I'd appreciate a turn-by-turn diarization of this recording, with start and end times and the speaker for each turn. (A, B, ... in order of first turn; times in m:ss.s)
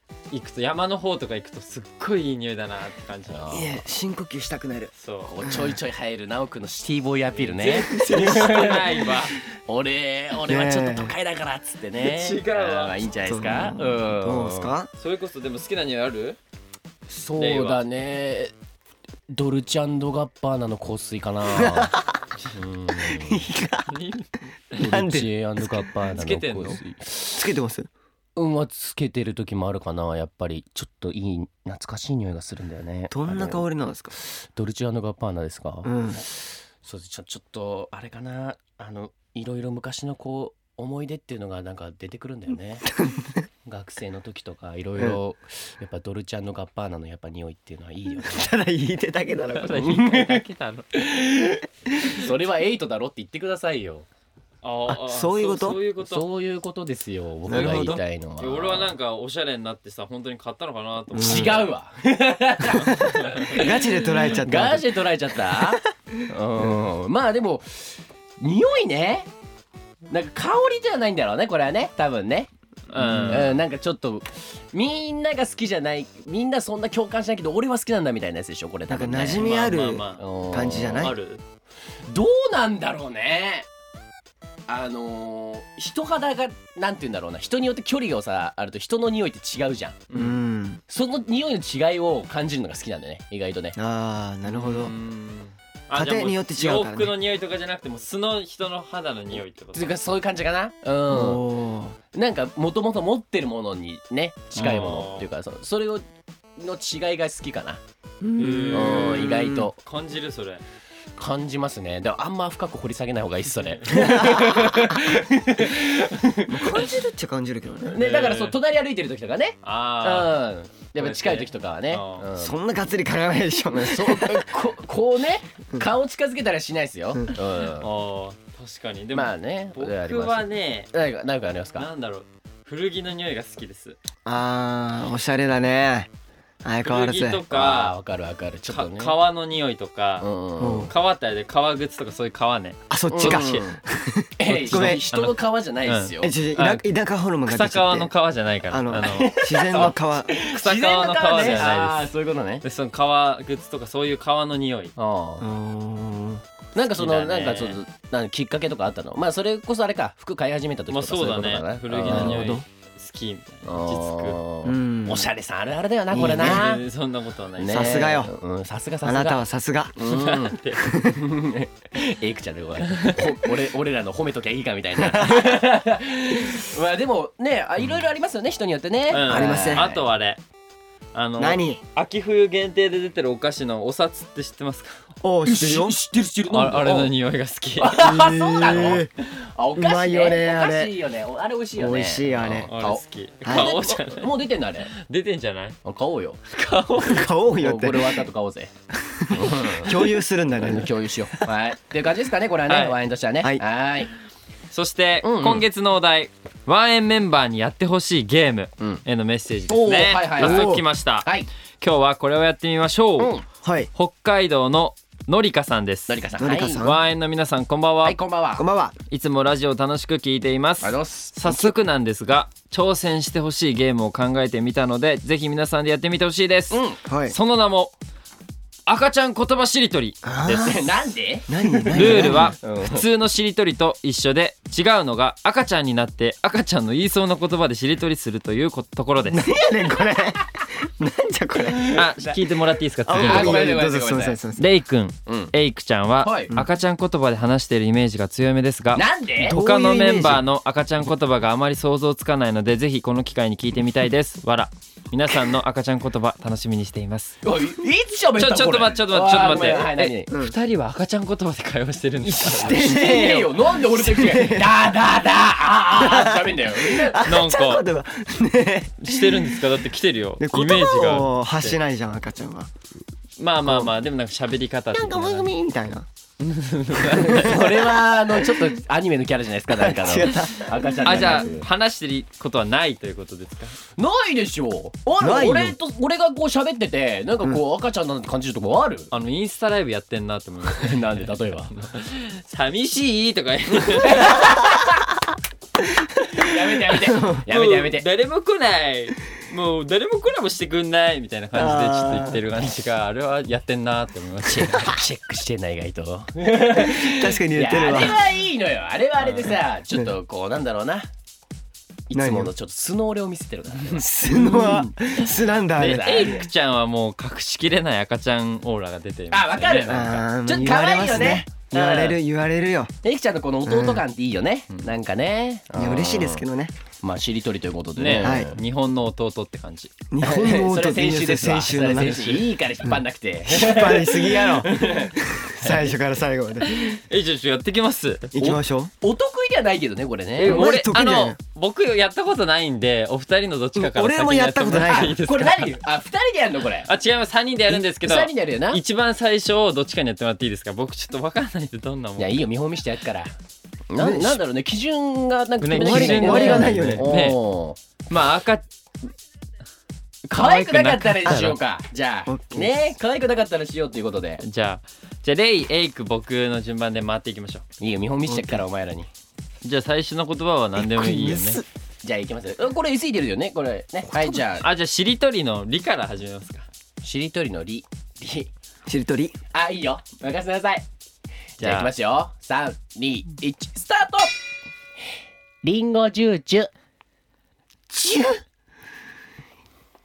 0:00.3-0:03.7 A
0:03.3-0:03.8 B
0:03.5-0:05.8 C
0:05.0-0:05.4 A
0:05.3-0:14.7 B
0:07.3-0:09.4 A
0:07.6-0:08.8 C
0:10.5-0:11.1 C
0:12.0-0:13.0 A
0:13.2-0:14.9 C
0:15.0-0:16.4 A
0:17.1-0:18.5 B
0:17.4-0:17.8 A
0:19.3-0:21.9 B
0:21.5-0:22.2 C
0:22.5-0:23.4 B
0:23.0-0:23.9 C
0:23.9-0:24.9 A
0:24.8-0:27.4 B
0:24.8-0:25.9 C
0:26.1-0:26.8 A
0:27.3-0:27.9 C
0:28.4-0:33.6 B
0:33.1-0:34.2 C
0:34.2-0:42.9 B
0:35.8-0:36.2 C
0:43.0-0:43.3 C
0:43.6-0:48.5 B
0:48.2-0:49.8 C
0:49.5-0:50.9 A
0:49.7-0:50.4 B
0:50.9-0:54.1 B
0:54.6-0:56.3 A
0:54.9-0:55.8 C
0:56.0-0:58.9 B
0:57.5-0:58.0 C
0:57.5-1:01.7 A
1:01.2-1:01.6 C
1:01.2-1:09.3 B
1:02.7-1:03.5 A
1:03.4-1:05.0 C
1:05.5-1:05.8 C
1:10.1-1:12.5 B
1:12.9-1:13.6 A
1:13.0-1:13.5 C
1:13.3-1:19.6 B
1:18.9-1:21.2 C
1:19.4-1:20.3 A
1:20.2-1:21.1 B
1:20.9-1:21.4 A
1:22.1-1:23.7 B
1:24.7-1:30.1 B
1:30.1-1:30.4 A
1:30.1-1:30.8 C
1:30.9-1:33.8 B
1:33.8-1:34.9 C
1:34.5-1:39.9 A
1:35.9-1:37.1 C
1:39.7-1:41.5 B
1:41.1-1:42.0 C
1:42.1-1:46.0 B
1:44.6-1:45.3 A
1:46.6-1:47.8 B
1:48.2-1:49.7 C
1:48.4-1:50.6 A
1:48.7-1:49.8 B
1:51.2-1:56.8 B
1:53.7-1:54.4 A
1:53.9-1:55.0 C
1:56.5-1:58.0 C
1:57.8-2:02.6 B
1:58.0-1:58.6 A
1:59.6-2:00.3 A
2:01.0-2:02.3 A
2:02.4-2:04.5 C
2:03.7-2:07.9 B
2:07.8-2:10.9 A
2:09.1-2:11.9 B
2:11.8-2:14.0 A
2:14.2-2:16.1 C
2:16.6-2:17.4 C
2:16.8-2:18.0 A
2:17.5-2:19.2 B
2:18.7-2:20.3 A
2:20.2-2:20.9 B
2:20.6-2:20.9 C
2:20.9-2:23.7 A
2:22.9-2:25.1 C
2:23.1-2:23.8 B
2:24.4-2:26.3 B
2:24.5-2:26.8 A
2:26.2-2:28.1 C
2:27.5-2:35.0 A
2:28.7-2:30.4 C
2:29.0-2:32.6 B
2:35.0-2:35.5 B
2:35.4-2:36.4 C
2:36.8-2:42.6 B
2:37.0-2:37.8 A
2:40.9-2:44.4 A
2:42.0-2:42.6 C
2:43.6-2:46.8 B
2:44.6-2:45.3 C
2:46.1-2:46.6 C
2:46.3-2:48.0 A
2:47.6-2:49.4 B
2:47.7-2:48.3 C
2:49.0-2:49.9 C
2:50.0-3:00.0 B
2:50.0-2:50.9 A
2:50.8-2:51.3 C
2:52.9-2:53.2 A
2:55.0-2:55.6 C
2:59.1-3:00.4 A
2:59.3-2:59.9 C
3:01.1-3:05.0 A
3:01.4-3:01.8 C
3:05.2-3:06.0 C
3:05.4-3:07.1 B
3:06.5-3:08.1 A
3:07.8-3:14.9 B
3:08.0-3:09.1 C
3:09.8-3:11.0 C
3:11.8-3:12.7 C
3:12.7-3:14.3 A
3:13.4-3:13.8 C
3:14.9-3:15.8 A
3:15.8-3:16.4 B
3:16.5-3:17.3 A
3:17.0-3:18.3 C
3:17.6-3:18.7 B
3:18.9-3:21.5 C
3:19.3-3:24.1 B
3:22.7-3:23.0 A
3:24.7-3:31.3 A
3:25.2-3:25.6 B
3:29.7-3:31.5 B
3:30.4-3:30.8 C
3:31.8-3:33.4 A
3:33.2-3:33.5 B
3:33.6-3:33.9 C
3:33.9-3:36.2 A
3:36.1-3:36.8 B
3:36.4-3:37.0 C
3:36.8-3:38.2 A
3:38.0-3:38.6 B
3:38.6-3:39.0 C
3:39.1-3:47.9 A
3:40.8-3:41.4 B
3:46.7-3:47.0 B
3:47.0-3:47.4 C
3:48.9-3:50.8 A
3:50.2-3:50.9 C
3:50.6-3:53.0 B
3:51.5-3:52.6 C
3:51.9-3:59.5 A
3:59.3-4:02.1 C
4:01.6-4:02.4 B
4:01.9-4:03.7 A
4:03.1-4:04.7 C
4:03.2-4:04.4 B
4:04.6-4:17.4 A
4:05.3-4:05.5 B
4:06.2-4:06.5 B
4:09.0-4:09.6 B
4:09.4-4:10.4 C
4:17.4-4:20.3 B
4:18.4-4:23.0 A
4:20.3-4:20.6 C
4:22.2-4:24.9 C
4:22.6-4:27.2 B
4:26.0-4:29.6 C
4:27.2-4:27.8 A
4:29.0-4:31.8 A
4:30.4-4:32.7 C
4:33.4-4:35.5 A
4:33.6-4:33.9 C
4:34.9-4:36.1 C
4:36.4-4:37.7 A
4:37.0-4:41.7 B
4:37.2-4:38.0 C
4:39.7-4:41.5 C
4:41.0-4:43.8 A
4:44.0-4:49.1 B
4:45.2-4:45.8 C
4:49.1-4:51.2 A
4:50.7-4:51.7 B
4:51.8-4:54.5 A
4:54.0-4:54.9 B
4:56.3-4:58.1 B
4:56.9-4:57.5 C
4:57.5-5:05.0 A
5:01.5-5:02.4 C
5:04.6-5:11.1 B
5:06.8-5:08.2 C
5:09.2-5:09.5 A
5:12.1-5:14.9 B
5:12.1-5:12.5 C
5:13.9-5:16.4 C
5:15.8-5:16.5 B
5:15.8-5:20.2 A
5:19.3-5:22.2 B
5:19.8-5:22.9 C
5:23.0-5:26.4 B
5:23.7-5:24.0 C
5:25.7-5:26.7 C
5:27.0-5:28.6 B
5:28.0-5:29.9 A
5:28.2-5:28.5 C
5:30.1-5:36.8 C
5:30.2-5:35.9 B
5:36.6-5:38.3 A
5:38.3-5:38.9 C
5:38.4-5:40.8 B
5:40.4-5:45.8 A
5:40.4-5:41.4 C
5:43.8-5:45.2 C
5:44.9-5:46.9 B
5:46.9-5:52.4 A
5:47.7-5:48.8 B
5:52.2-5:53.3 B
5:53.9-5:57.8 B
5:54.0-5:54.4 C
5:55.6-5:57.4 A
5:55.8-5:57.1 C
5:58.1-5:58.7 A
6:00.3-6:04.4 B
6:00.4-6:01.6 A
6:01.3-6:01.6 C
6:02.3-6:02.8 C
6:04.4-6:07.6 A
6:07.8-6:09.1 B
6:08.3-6:08.6 C
6:09.6-6:11.6 A
6:10.8-6:11.6 C
6:12.0-6:14.7 B
6:14.6-6:16.7 A
6:17.0-6:18.5 B
6:18.9-6:19.4 C
6:19.5-6:20.8 B
6:21.6-6:24.3 B
6:21.6-6:21.9 A
6:25.6-6:26.7 B
6:27.9-6:28.4 C